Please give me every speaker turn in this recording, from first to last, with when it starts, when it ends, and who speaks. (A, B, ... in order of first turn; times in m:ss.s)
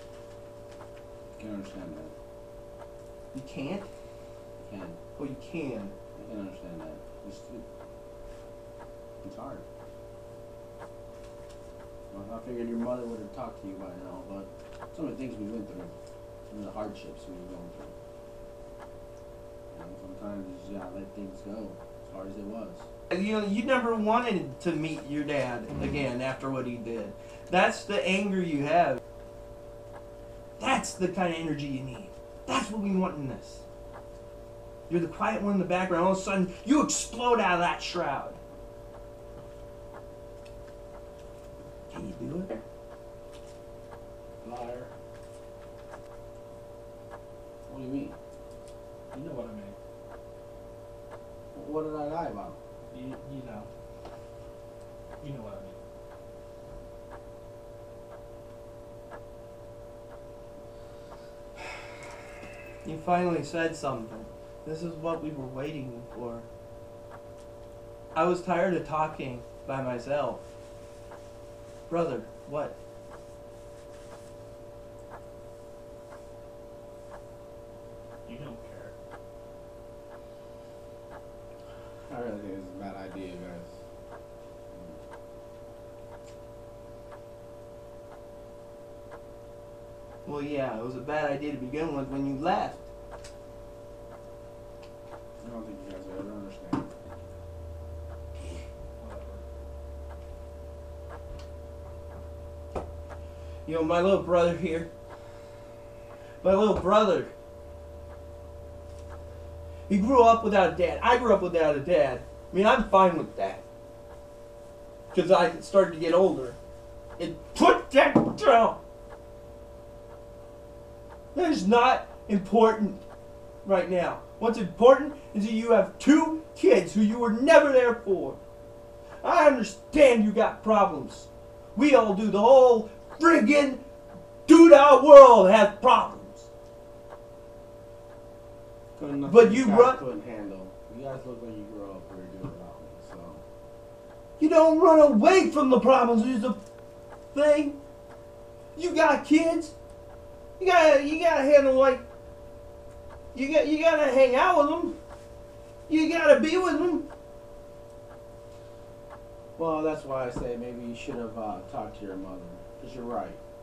0:01.4-0:02.1 A
0:03.3-0:03.9 B
0:04.6-0:05.0 A
0:05.2-0:05.9 B
0:06.1-0:07.6 A
0:09.2-0:09.6 A
0:12.1-0:15.9 A
0:16.5-0:17.9 A
0:19.7-0:22.9 A
0:23.1-0:29.0 B
0:30.6-0:33.6 B
0:34.9-0:38.4 B
0:41.9-0:42.6 B
0:44.4-0:44.9 A
0:47.7-0:48.1 A
0:49.1-0:49.8 C
0:51.5-0:52.6 A
0:52.9-0:53.7 C
0:55.2-0:55.8 C
1:02.8-1:06.5 B
1:08.1-1:10.4 B
1:11.9-1:12.8 B
1:18.2-1:18.9 C
1:22.1-1:23.7 A
1:24.7-1:25.0 A
1:30.2-1:32.9 B
1:35.4-1:37.3 A
1:39.0-1:39.4 C
1:43.6-1:44.9 B
1:46.4-1:47.3 B
1:49.9-1:53.6 B
1:55.1-1:56.6 B
1:57.2-1:58.8 B
2:01.3-2:03.0 B
2:03.6-2:08.4 B
2:09.2-2:13.8 B
2:14.5-2:16.5 B
2:19.0-2:23.4 A
2:19.2-2:20.0 B
2:24.4-2:26.6 B
2:27.3-2:27.8 B
2:28.8-2:29.8 B
2:30.6-2:32.0 B
2:33.3-2:35.0 B
2:35.9-2:37.1 B
2:39.6-2:43.4 A